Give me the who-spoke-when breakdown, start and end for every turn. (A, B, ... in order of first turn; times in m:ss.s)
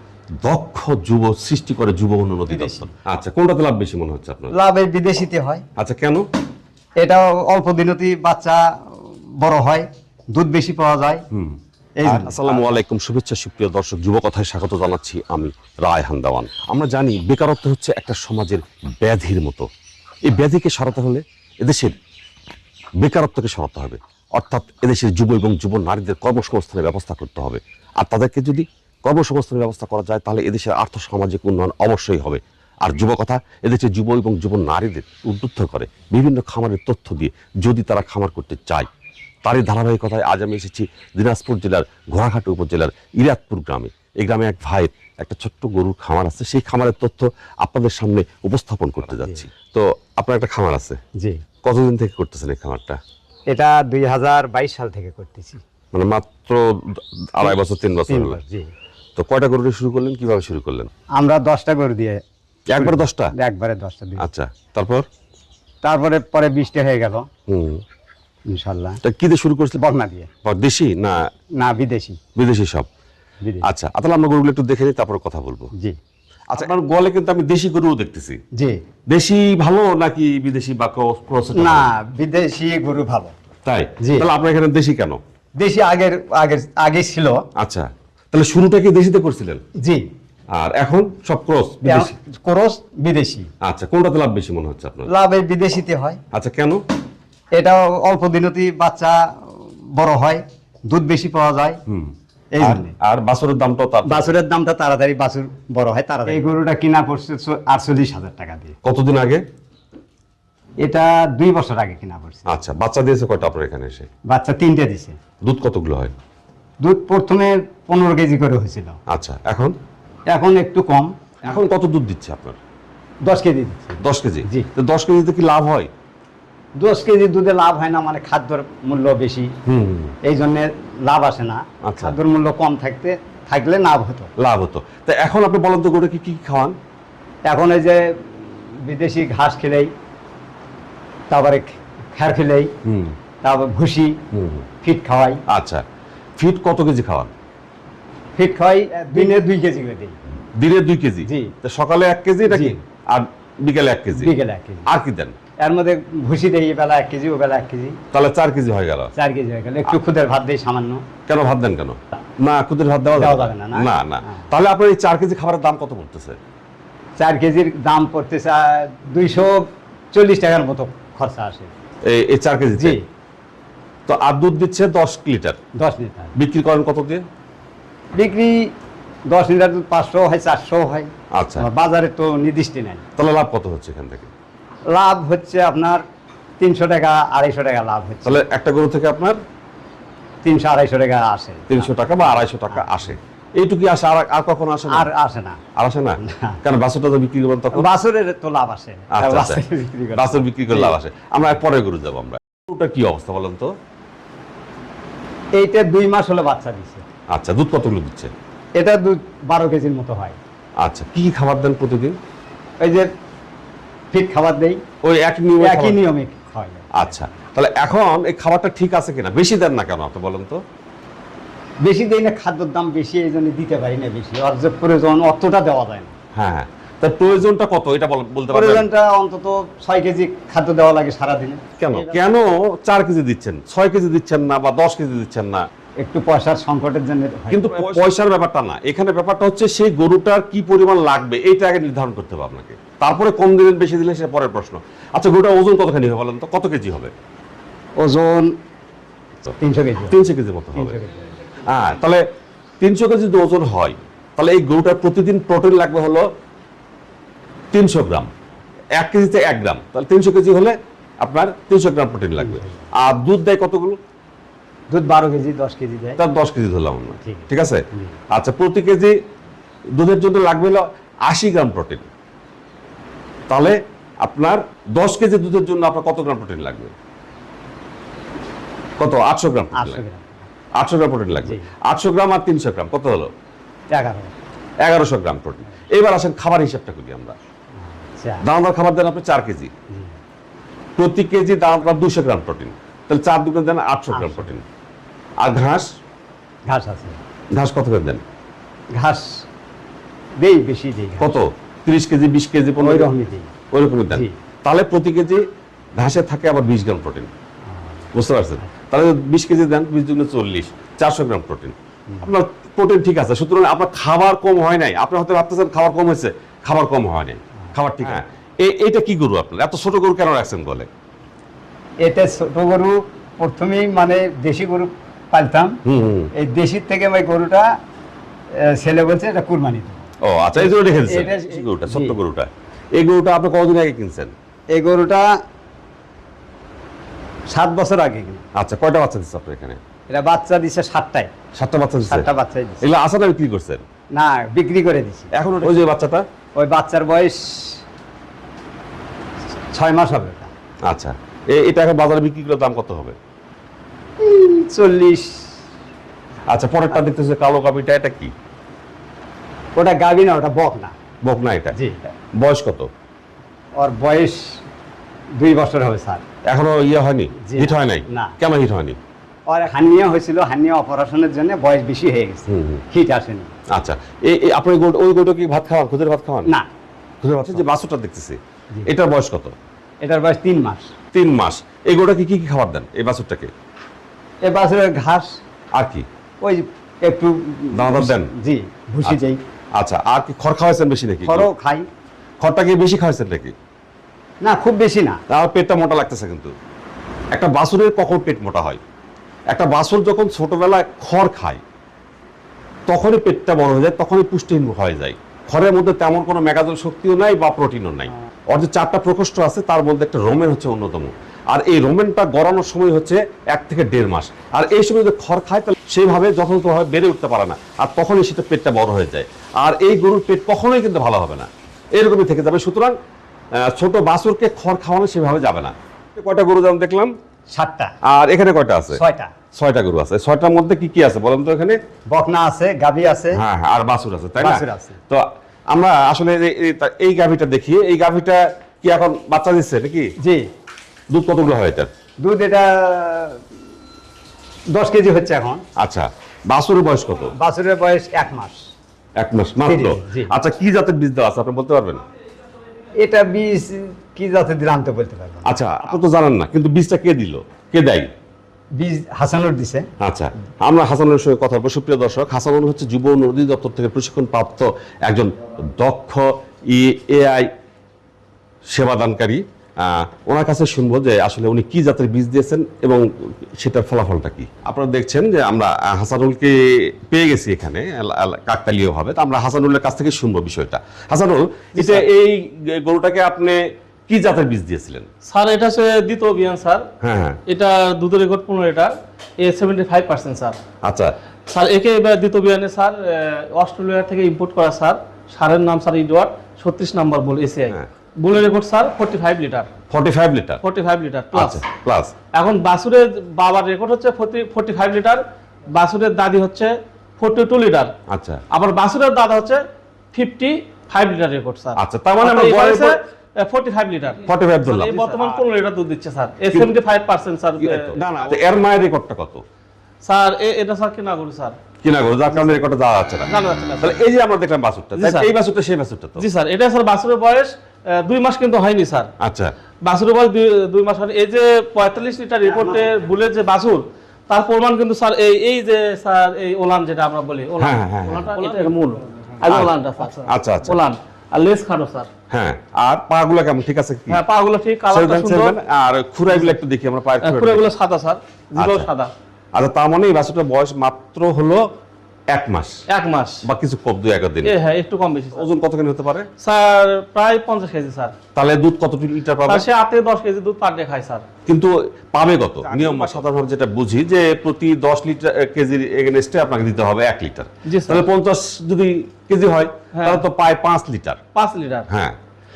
0:00.4-0:04.5 A
0:02.5-0:02.8 B
0:04.5-0:05.6 B
0:05.8-0:06.2 A
0:07.0-0:11.2 B
0:11.3-0:19.7 A
0:12.0-0:12.8 B
0:20.2-0:21.9 A
0:23.0-0:38.9 A
0:39.4-0:51.0 A
0:51.2-0:51.4 B
0:51.6-0:53.0 A
0:53.5-0:55.6 B
0:55.9-0:58.4 A
0:58.1-0:58.7 B
0:59.2-1:00.9 A
1:01.2-1:02.2 B
1:02.7-1:03.3 A
1:02.8-1:04.2 B
1:04.2-1:05.0 A
1:05.8-1:07.3 B
1:07.5-1:07.8 A
1:08.5-1:09.0 B
1:09.0-1:09.8 A
1:09.8-1:10.3 B
1:10.4-1:11.2 A
1:11.6-1:12.2 B
1:12.3-1:12.9 A
1:13.6-1:15.7 A
1:16.5-1:18.4 A
1:19.1-1:21.9 A
1:21.5-1:23.3 B
1:23.6-1:25.2 A
1:24.0-1:24.3 B
1:25.6-1:27.4 B
1:27.6-1:29.6 A
1:29.8-1:30.0 B
1:30.5-1:32.1 A
1:31.8-1:33.5 B
1:33.6-1:35.1 A
1:35.1-1:36.2 B
1:36.3-1:36.8 A
1:37.5-1:41.8 B
1:41.9-1:44.3 A
1:42.5-1:42.9 B
1:44.0-1:48.7 B
1:48.8-1:49.4 A
1:50.8-1:52.5 B
1:52.4-1:54.1 A
1:54.3-1:55.2 B
1:55.4-1:56.1 A
1:56.8-1:59.0 B
1:59.1-1:59.8 A
2:00.3-2:01.6 B
2:01.4-2:02.6 A
2:03.2-2:04.7 B
2:04.0-2:05.9 A
2:06.8-2:09.5 B
2:09.6-2:10.1 A
2:10.2-2:14.3 B
2:11.8-2:12.2 A
2:14.4-2:16.7 A
2:17.4-2:19.9 B
2:21.3-2:22.7 B
2:22.8-2:23.1 A
2:23.4-2:24.1 B
2:24.3-2:24.6 A
2:24.8-2:25.4 B
2:25.5-2:25.8 A
2:26.4-2:27.3 A
2:28.4-2:30.2 B
2:30.6-2:34.3 A
2:31.2-2:31.5 B
2:32.5-2:32.8 B
2:34.2-2:34.8 B
2:34.8-2:35.3 A
2:35.6-2:38.0 B
2:38.1-2:39.1 A
2:39.1-2:41.0 B
2:41.3-2:46.4 A
2:43.1-2:44.4 B
2:47.2-2:51.7 B
2:52.0-2:53.0 A
2:52.8-2:53.0 B
2:54.1-2:55.6 A
2:55.8-2:56.3 B
2:56.3-2:57.2 A
2:58.1-2:58.7 B
2:59.3-3:03.0 B
3:01.3-3:01.6 A
3:03.2-3:04.3 A
3:04.9-3:06.0 B
3:06.6-3:08.4 B
3:08.2-3:09.4 A
3:10.4-3:13.0 B
3:11.7-3:15.1 A
3:14.9-3:15.6 B
3:15.8-3:17.9 A
3:16.2-3:16.6 B
3:17.7-3:21.0 B
3:19.1-3:19.6 A
3:20.1-3:23.7 A
3:25.5-3:27.0 B
3:27.3-3:28.3 A
3:28.8-3:30.4 B
3:30.8-3:32.2 A
3:32.8-3:33.1 B
3:34.1-3:34.8 B
3:35.0-3:36.0 A
3:35.6-3:36.9 B
3:36.9-3:40.6 A
3:41.8-3:46.1 B
3:46.3-3:48.8 A
3:48.5-3:52.1 B
3:51.8-3:55.6 A
3:56.0-3:58.1 B
3:57.5-4:07.1 A
4:08.0-4:08.5 B
4:09.6-4:10.2 B
4:10.1-4:11.0 A
4:10.7-4:11.3 B
4:11.7-4:12.2 A
4:12.8-4:16.2 A
4:17.7-4:18.3 A
4:19.0-4:24.0 A
4:22.4-4:22.7 B
4:24.9-4:26.2 B
4:26.2-4:29.1 A
4:27.2-4:28.1 B
4:29.9-4:32.1 A
4:33.5-4:36.9 A
4:39.0-4:40.0 A
4:39.7-4:40.4 B
4:40.8-4:43.3 A
4:43.9-4:44.3 B
4:44.8-4:47.3 A
4:47.8-4:48.4 B
4:48.4-4:49.7 A
4:51.0-4:54.6 A
4:54.1-4:54.5 B
4:55.4-4:55.8 A
4:56.7-4:57.2 B
4:57.5-4:58.2 A
4:58.9-4:59.4 B
5:00.4-5:01.3 B
5:01.2-5:03.1 A
5:02.8-5:03.5 B
5:03.7-5:05.4 A
5:06.0-5:07.3 A
5:07.7-5:08.0 B
5:08.1-5:20.9 A
5:22.0-5:25.8 B
5:25.8-5:26.3 A
5:26.3-5:27.7 B
5:28.6-5:32.2 B
5:30.2-5:34.3 A
5:34.7-5:35.2 B
5:37.5-5:38.4 B
5:38.5-5:39.8 A
5:40.1-5:41.3 B
5:41.6-5:42.3 A
5:42.0-5:42.8 B
5:42.8-5:43.8 A
5:44.1-5:45.7 B
5:45.3-5:46.2 A
5:46.6-5:47.8 B
5:49.7-5:50.5 B
5:50.8-5:53.2 A
5:54.2-5:55.4 B
5:56.5-5:58.3 A
5:59.7-6:00.9 B
6:01.2-6:01.8 A
6:01.7-6:02.0 B
6:02.4-6:02.9 A
6:03.8-6:04.6 B
6:05.4-6:06.2 B
6:06.4-6:09.0 A
6:07.4-6:08.3 B
6:09.5-6:13.5 B
6:12.5-6:12.8 A
6:13.7-6:16.5 A
6:17.2-6:19.5 A
6:20.0-6:20.9 B
6:21.1-6:23.5 A
6:24.4-6:25.4 B
6:25.7-6:26.0 A
6:26.4-6:29.4 B
6:27.7-6:28.3 A
6:29.8-6:31.5 A
6:31.2-6:31.9 B
6:32.4-6:33.5 A
6:34.4-6:35.2 B
6:35.3-6:36.5 A
6:37.3-6:38.8 A
6:39.5-6:41.6 A
6:42.9-7:03.0 A
7:03.6-7:07.1 A
7:07.5-7:07.9 B
7:08.0-7:09.0 A
7:08.9-7:09.3 B
7:09.5-7:11.8 A
7:12.1-7:13.4 B
7:13.3-7:20.1 A
7:14.4-7:15.0 B
7:20.2-7:20.5 B
7:21.1-7:21.9 A
7:22.2-7:23.4 B
7:24.7-7:25.6 B
7:25.8-7:27.3 A
7:27.4-7:28.6 B
7:29.2-7:32.0 A
7:29.6-7:30.3 B
7:33.0-7:36.0 B
7:35.4-7:38.1 A
7:38.8-7:39.9 B
7:40.0-7:47.5 A
7:48.7-7:53.0 A
7:53.6-8:05.1 A
8:05.2-8:06.8 C
8:07.0-8:07.4 A
8:07.5-8:10.6 C
8:10.8-8:11.1 A
8:11.5-8:19.7 C
8:19.9-8:20.6 A
8:20.6-8:21.6 C
8:21.3-8:22.1 A
8:22.3-8:27.9 C
8:28.1-8:28.4 A
8:28.5-8:29.6 C
8:30.1-8:38.0 C
8:31.8-8:33.0 A
8:34.3-8:35.1 A
8:37.6-8:39.4 A
8:40.0-8:41.5 C
8:41.8-8:43.3 A
8:43.3-8:44.0 C
8:43.8-8:46.2 A
8:45.0-8:45.3 C
8:46.2-8:49.1 C
8:49.2-8:49.5 A
8:49.8-9:02.1 C
8:52.4-8:52.8 B
8:57.6-8:58.4 A
8:59.5-8:59.7 A
9:00.2-9:00.8 A
9:02.3-9:04.2 A
9:04.1-9:05.5 C
9:04.9-9:07.7 A
9:06.3-9:06.6 C
9:07.2-9:09.1 C
9:08.6-9:08.9 A
9:09.5-9:11.6 A
9:12.3-9:12.8 A
9:12.9-9:13.4 C
9:13.4-9:14.5 A
9:14.4-9:15.5 C
9:15.3-9:16.3 A
9:16.4-9:18.1 C
9:18.3-9:19.7 A
9:19.4-9:21.2 C
9:21.5-9:31.2 A
9:22.6-9:23.2 C
9:27.6-9:28.0 C
9:29.9-9:30.2 C
9:31.3-9:31.9 C
9:31.9-9:32.2 A